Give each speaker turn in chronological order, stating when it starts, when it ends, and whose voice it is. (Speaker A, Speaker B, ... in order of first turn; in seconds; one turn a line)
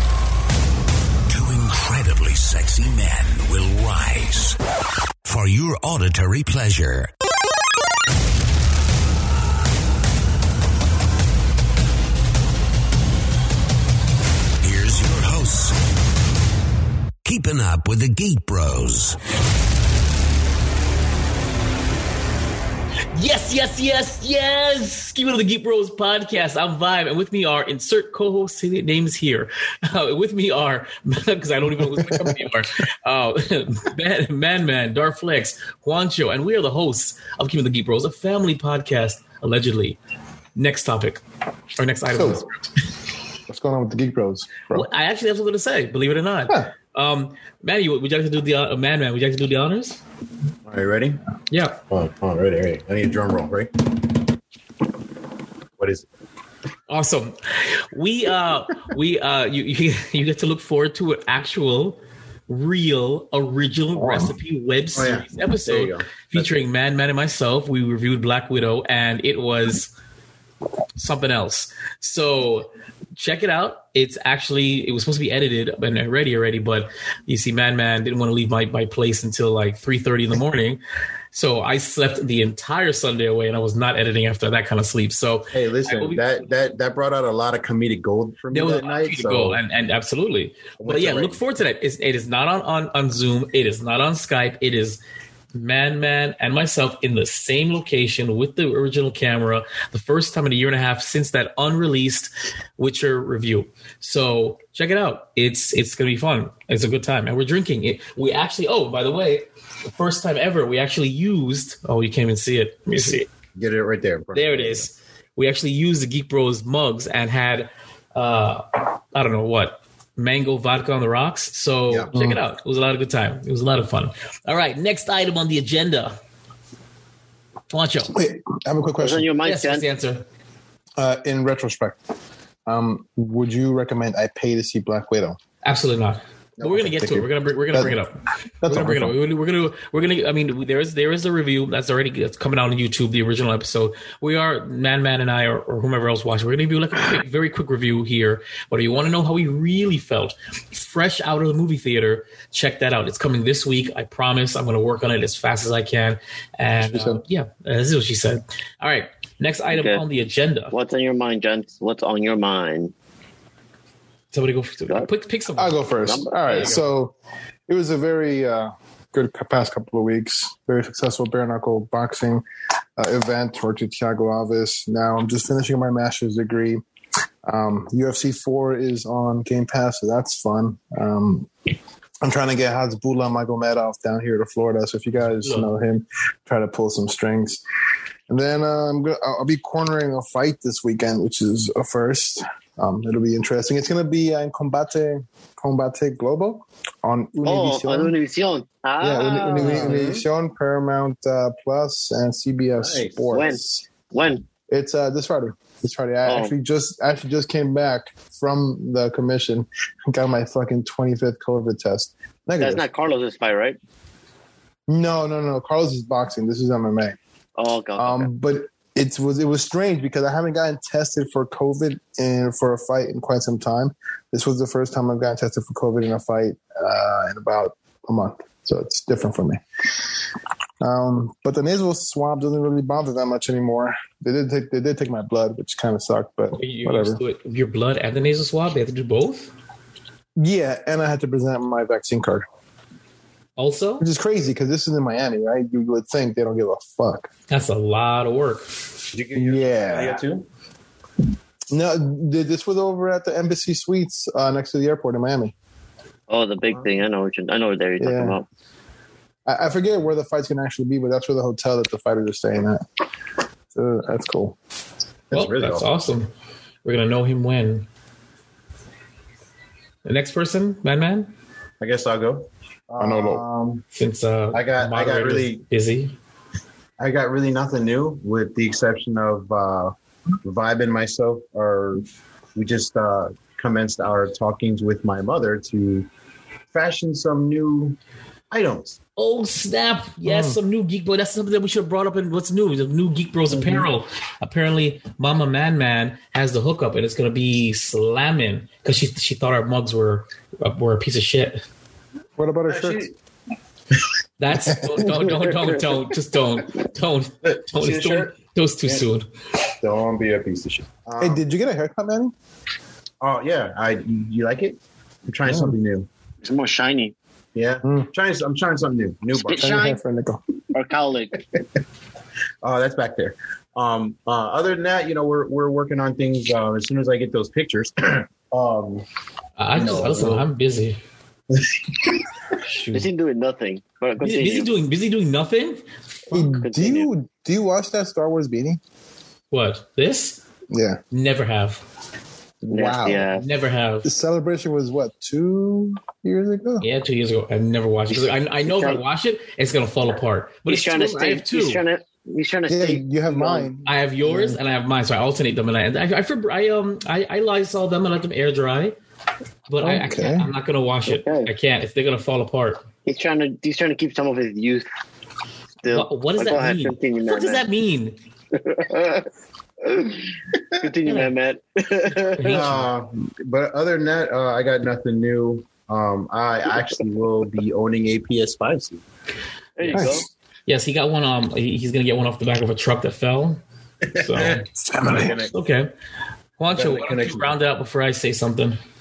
Speaker A: 1.3-4.6
Speaker A: 5.3-7.1
Speaker A: 14.6-15.7
Speaker A: 17.2-19.1
Speaker B: 23.1-40.0
Speaker C: 32.0-32.4
Speaker B: 40.5-41.2
Speaker B: 41.8-42.6
Speaker C: 42.1-42.4
Speaker C: 43.5-44.9
Speaker B: 44.7-50.0
Speaker D: 50.6-51.2
Speaker B: 51.5-51.8
Speaker D: 51.9-53.7
Speaker D: 55.8-56.0
Speaker B: 56.9-57.4
Speaker B: 57.9-69.9
Speaker C: 64.0-64.3
Speaker D: 64.9-66.6
Speaker B: 71.0-80.8
Speaker B: 81.3-86.3
Speaker D: 85.5-89.6
Speaker B: 88.5-95.0
Speaker D: 90.8-91.4
Speaker B: 95.5-113.3
Speaker D: 113.5-114.8
Speaker B: 114.3-126.2
Speaker C: 122.1-122.4
Speaker B: 127.7-128.1
Speaker C: 128.1-129.3
Speaker E: 129.0-129.8
Speaker B: 129.4-130.2
Speaker C: 131.0-132.0
Speaker C: 132.7-135.4
Speaker B: 135.6-160.7
Speaker D: 136.6-136.9
Speaker C: 136.7-138.0
Speaker C: 138.6-139.2
Speaker C: 156.8-157.2
Speaker E: 159.7-160.0
Speaker E: 160.7-162.9
Speaker B: 164.3-165.9
Speaker C: 165.5-167.2
Speaker E: 166.0-166.8
Speaker B: 166.4-166.8
Speaker C: 167.7-172.4
Speaker C: 173.0-176.8
Speaker C: 177.4-181.5
Speaker C: 182.2-187.6
Speaker B: 185.2-185.7
Speaker C: 188.3-198.1
Speaker E: 197.4-199.9
Speaker C: 199.0-203.8
Speaker D: 199.6-200.2
Speaker D: 202.8-203.5
Speaker E: 203.3-204.4
Speaker C: 204.7-212.8
Speaker E: 206.2-206.5
Speaker E: 212.6-213.8
Speaker C: 214.9-217.2
Speaker E: 217.6-218.3
Speaker C: 217.9-229.6
Speaker C: 230.8-237.2
Speaker B: 236.5-239.5
Speaker C: 240.4-242.4
Speaker B: 243.6-244.1
Speaker C: 244.0-247.3
Speaker B: 247.5-248.7
Speaker D: 249.1-250.4
Speaker C: 249.3-250.2
Speaker C: 251.7-255.5
Speaker E: 256.3-258.4
Speaker C: 258.0-258.4
Speaker C: 259.4-262.8
Speaker C: 263.7-264.6
Speaker D: 265.3-265.9
Speaker B: 265.3-266.3
Speaker B: 266.8-267.9
Speaker B: 270.0-271.3
Speaker D: 271.8-273.8
Speaker C: 273.0-273.4
Speaker B: 273.9-276.1
Speaker D: 274.5-275.6
Speaker D: 277.0-286.1
Speaker D: 286.7-288.0
Speaker D: 288.5-289.0
Speaker B: 289.2-301.6
Speaker C: 290.2-290.6
Speaker D: 293.5-293.9
Speaker C: 302.4-303.0
Speaker D: 302.7-303.1
Speaker B: 304.4-309.3
Speaker C: 304.7-305.4
Speaker D: 307.4-308.3
Speaker D: 309.8-311.4
Speaker C: 311.2-312.3
Speaker D: 313.2-316.1
Speaker C: 315.4-315.8
Speaker E: 316.4-317.1
Speaker D: 317.5-319.8
Speaker C: 317.8-318.1
Speaker E: 319.4-320.0
Speaker C: 319.5-320.4
Speaker E: 320.7-321.4
Speaker D: 322.6-329.0
Speaker B: 329.6-331.0
Speaker D: 329.7-330.5
Speaker D: 331.5-332.2
Speaker B: 332.6-333.1
Speaker E: 332.9-334.7
Speaker B: 334.2-335.8
Speaker C: 336.3-338.8
Speaker E: 336.3-337.1
Speaker B: 339.5-340.4
Speaker C: 340.7-341.0
Speaker B: 341.1-341.8
Speaker C: 342.6-343.3
Speaker E: 342.7-343.4
Speaker B: 343.3-344.1
Speaker C: 344.0-346.9
Speaker B: 346.8-351.8
Speaker E: 348.1-349.0
Speaker E: 350.7-353.7
Speaker C: 352.7-354.6
Speaker B: 353.8-358.9
Speaker B: 359.7-362.8
Speaker C: 359.8-360.5
Speaker E: 361.1-361.5
Speaker E: 363.1-364.9
Speaker E: 365.8-367.6
Speaker B: 365.9-368.2
Speaker E: 368.5-369.3
Speaker E: 369.8-370.3
Speaker E: 370.8-372.7
Speaker B: 372.4-372.9
Speaker D: 372.5-379.0
Speaker E: 379.8-380.2
Speaker B: 379.8-380.1
Speaker C: 379.9-380.2
Speaker B: 380.7-383.6
Speaker D: 384.0-385.5
Speaker B: 384.1-384.6
Speaker C: 384.8-385.4
Speaker B: 385.5-385.9
Speaker B: 386.6-388.8
Speaker D: 386.7-387.6